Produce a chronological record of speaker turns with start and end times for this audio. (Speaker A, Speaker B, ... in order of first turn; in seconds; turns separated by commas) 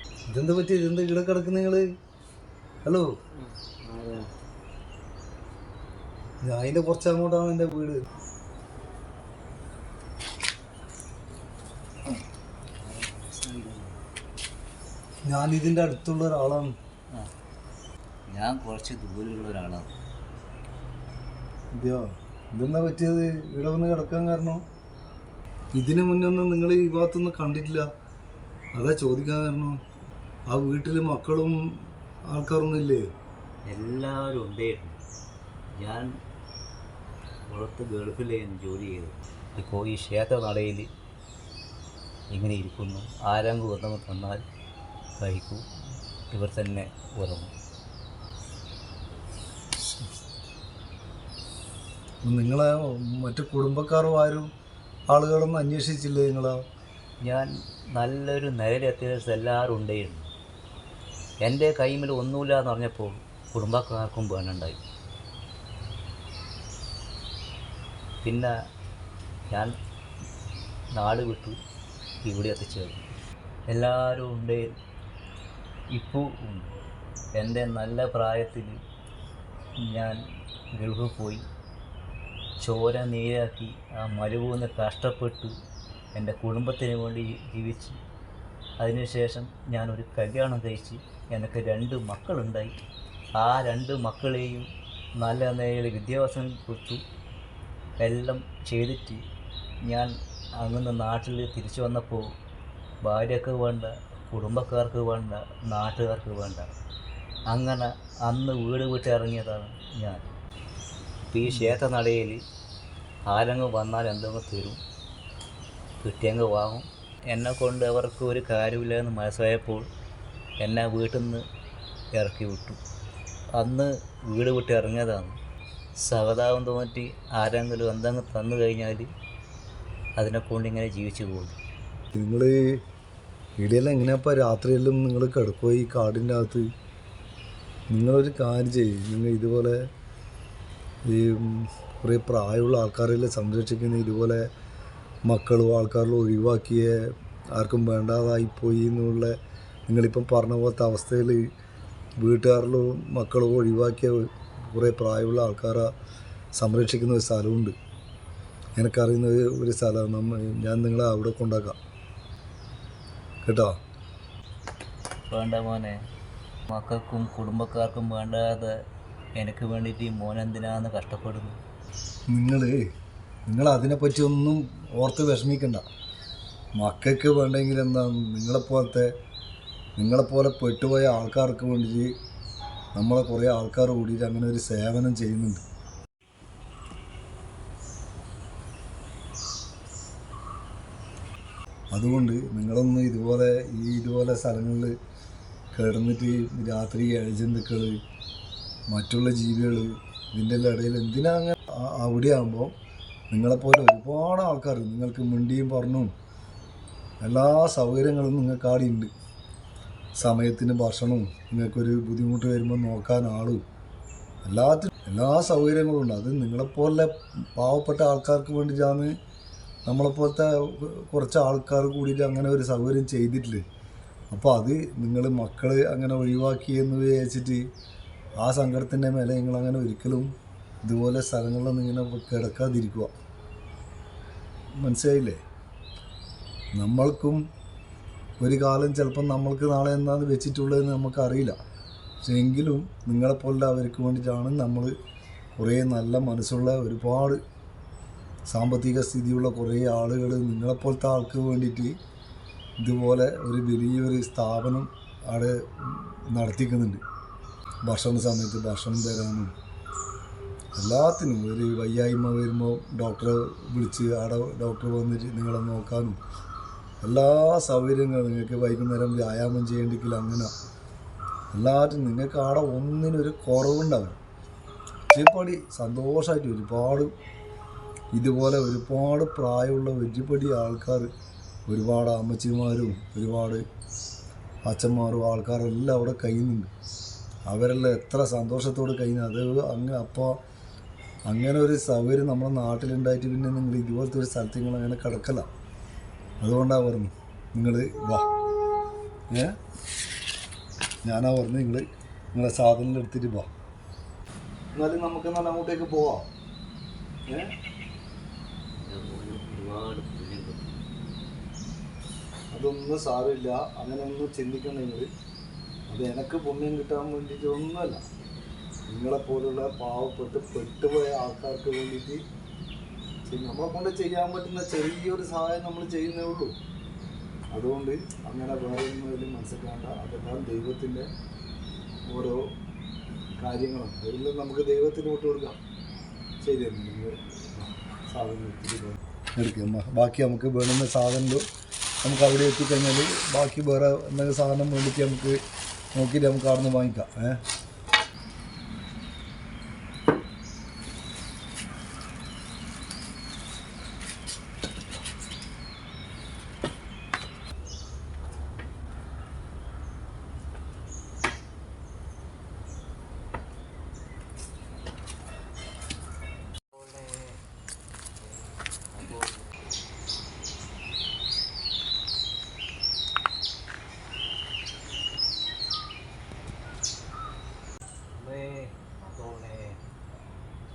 Speaker A: 0.3-1.9, Speaker A: 2.8-3.1, Speaker B: 3.6-4.3, Speaker A: 6.4-8.0, Speaker B: 12.8-14.0, Speaker A: 15.2-16.7, Speaker B: 18.3-19.9, Speaker A: 21.7-24.6, Speaker A: 25.7-27.9, Speaker A: 28.7-29.8, Speaker A: 30.5-31.6, Speaker A: 32.3-33.1, Speaker B: 33.7-35.0, Speaker B: 35.8-36.1, Speaker B: 37.5-40.9, Speaker B: 42.3-44.4, Speaker B: 45.2-45.6, Speaker B: 46.3-47.5, Speaker A: 52.2-54.5, Speaker A: 55.1-56.6, Speaker B: 57.2-60.3, Speaker B: 61.4-64.8, Speaker B: 68.2-68.5, Speaker B: 70.9-71.6, Speaker B: 72.2-73.1, Speaker B: 73.7-74.7, Speaker B: 75.9-76.7, Speaker B: 77.4-78.7, Speaker B: 79.9-80.2, Speaker B: 80.8-81.4, Speaker B: 82.6-85.5, Speaker B: 86.1-88.0, Speaker B: 88.8-92.7, Speaker B: 93.3-97.0, Speaker B: 98.0-99.2, Speaker B: 99.8-102.3, Speaker B: 103.0-106.8, Speaker B: 107.5-110.2, Speaker B: 111.3-112.4, Speaker A: 111.5-111.7, Speaker B: 113.3-114.8, Speaker B: 116.0-119.9, Speaker B: 120.6-121.4, Speaker B: 122.1-122.8, Speaker B: 123.5-125.3, Speaker B: 126.0-129.1, Speaker B: 130.2-131.6, Speaker A: 132.1-132.6, Speaker A: 133.6-136.7, Speaker A: 137.9-139.8, Speaker A: 141.1-144.4, Speaker A: 145.2-146.9, Speaker A: 147.5-149.3, Speaker A: 149.9-151.4, Speaker A: 152.2-155.9, Speaker A: 156.6-157.7, Speaker A: 158.8-161.8, Speaker A: 163.4-163.7, Speaker B: 165.3-166.0, Speaker B: 166.7-168.7, Speaker B: 169.4-171.6, Speaker A: 172.3-172.8, Speaker A: 173.5-175.8, Speaker A: 176.8-179.1, Speaker A: 180.0-182.1, Speaker A: 182.9-185.6, Speaker A: 191.9-194.9, Speaker A: 195.7-198.0, Speaker A: 198.9-202.7, Speaker A: 203.3-206.1, Speaker A: 207.2-209.1, Speaker A: 210.2-213.6, Speaker A: 214.4-219.1, Speaker A: 219.8-223.6, Speaker A: 224.3-227.6, Speaker A: 228.4-230.3, Speaker A: 230.8-233.1, Speaker A: 234.8-235.4, Speaker A: 236.8-237.4, Speaker A: 238.4-241.6, Speaker A: 242.2-244.9, Speaker A: 245.6-247.4, Speaker A: 248.5-251.9, Speaker A: 252.8-257.0, Speaker A: 257.8-259.5, Speaker A: 260.7-266.2, Speaker A: 267.0-270.5, Speaker A: 271.5-274.2, Speaker A: 275.1-277.1, Speaker A: 278.1-281.1, Speaker A: 281.7-283.6, Speaker A: 284.6-286.7, Speaker A: 287.5-290.4, Speaker A: 291.3-295.4, Speaker A: 296.4-298.2, Speaker A: 301.0-303.5, Speaker A: 304.7-306.3, Speaker A: 307.3-307.5, Speaker B: 308.8-310.8, Speaker A: 312.5-315.1, Speaker A: 315.9-318.0, Speaker A: 318.9-322.2, Speaker A: 323.2-326.5, Speaker A: 327.5-331.1, Speaker A: 332.1-332.5, Speaker A: 333.4-335.6, Speaker A: 336.4-341.4, Speaker A: 342.0-345.4, Speaker A: 345.9-347.4, Speaker B: 366.7-367.4, Speaker B: 368.9-369.6, Speaker B: 378.1-379.8